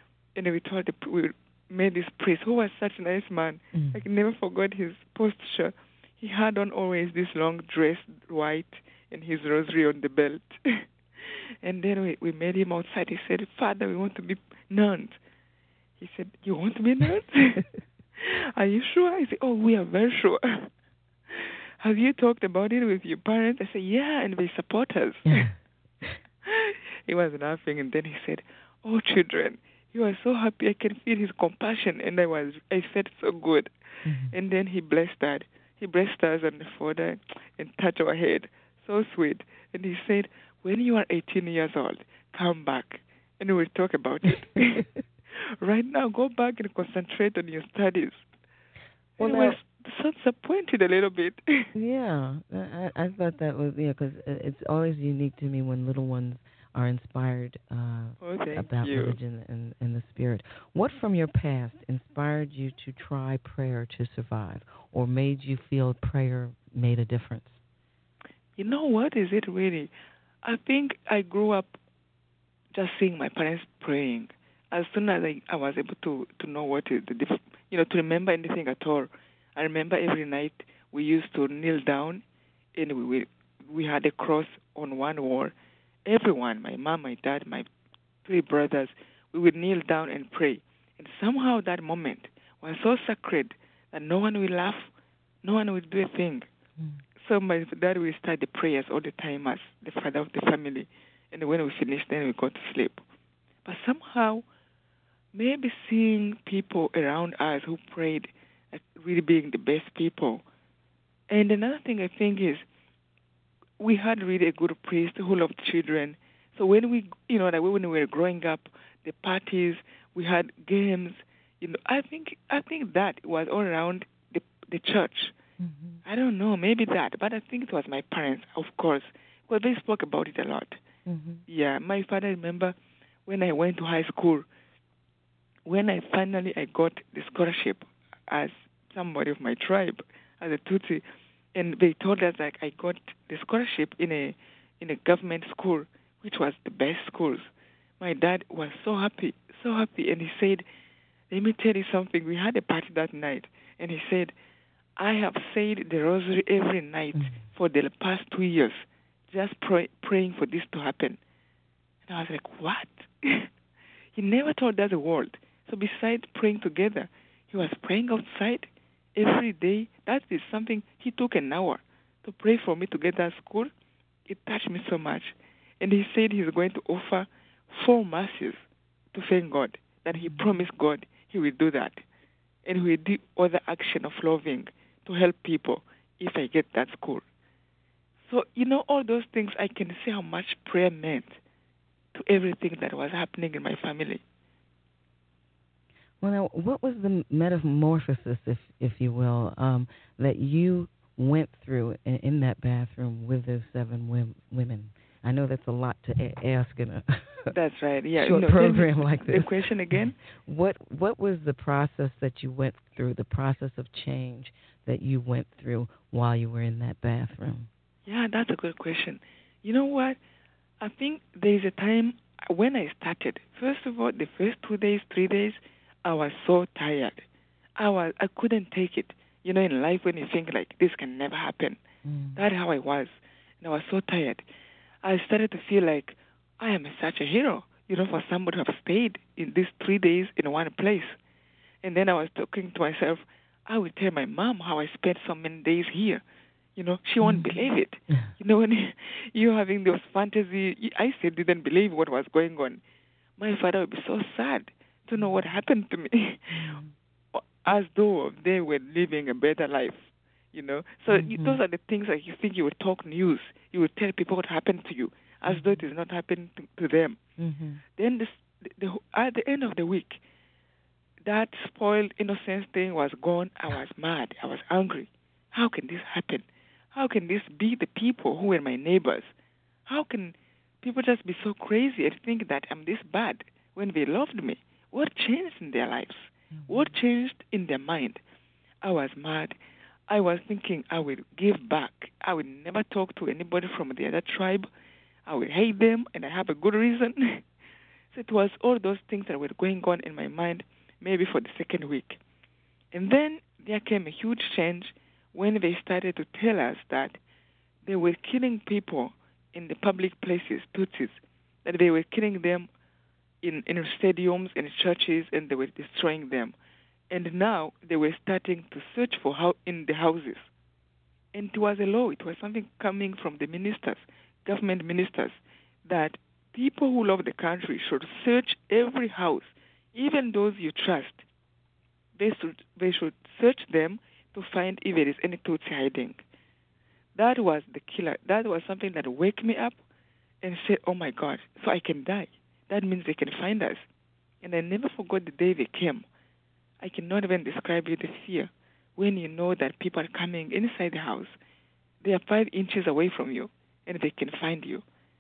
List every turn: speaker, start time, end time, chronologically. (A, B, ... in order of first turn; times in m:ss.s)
0:00.3-0:15.2 A
0:03.7-0:04.0 B
0:16.0-0:20.7 A
0:21.3-0:25.5 A
0:25.3-0:26.2 B
0:26.4-0:33.7 A
0:34.0-0:34.3 B
0:34.3-0:48.2 A
0:49.2-0:49.6 B
0:49.2-0:51.7 A
0:51.7-1:07.6 B
0:58.2-0:59.2 A
1:08.6-1:09.9 A
1:10.4-1:11.8 A
1:12.7-1:22.2 A
1:22.7-1:25.5 A
1:26.0-1:27.7 A
1:28.2-1:34.9 A
1:35.4-1:36.5 A
1:37.2-1:43.0 A
1:43.6-1:44.4 A
1:45.3-1:50.4 A
1:51.3-1:52.6 A
1:53.8-2:05.3 A
2:05.6-2:06.0 B
2:06.0-2:10.8 A
2:11.0-2:11.4 B
2:11.5-2:12.7 A
2:13.2-2:14.5 A
2:15.6-2:30.6 A
2:31.3-2:34.3 A
2:35.0-2:41.2 A
2:37.1-2:37.4 B
2:42.1-2:43.5 A
2:44.1-2:53.7 A
2:54.3-3:02.0 A
3:00.1-3:00.6 B
3:02.6-3:07.2 A
3:08.3-3:11.4 A
3:12.1-3:14.2 A
3:16.2-3:27.5 B
3:27.5-3:30.1 A
3:28.2-3:37.7 B
3:38.0-3:40.2 A
3:40.8-3:47.2 A
3:47.8-3:51.8 A
3:52.0-3:52.4 B
3:52.4-3:54.4 A
3:55.0-4:01.2 A
4:01.8-4:06.2 A
4:06.8-4:12.8 A
4:07.2-4:07.5 B
4:13.4-4:16.8 A
4:16.5-4:16.9 B
4:17.3-4:27.2 A
4:21.1-4:21.6 B
4:25.5-4:25.8 B
4:27.4-4:27.8 B
4:28.0-4:30.2 A
4:31.2-4:39.3 A
4:39.9-4:48.2 A
4:46.6-4:46.9 B
4:48.8-4:54.7 A
4:55.2-4:57.4 A
4:58.1-5:02.2 A
5:02.9-5:07.2 A
5:07.8-5:12.7 A
5:13.4-5:16.5 A
5:17.1-5:20.5 A
5:21.3-5:31.2 A
5:32.2-5:36.2 A
5:37.2-5:39.8 A
5:40.4-5:43.9 A
5:44.4-5:46.0 A
5:46.8-5:51.4 A
5:52.0-5:54.8 A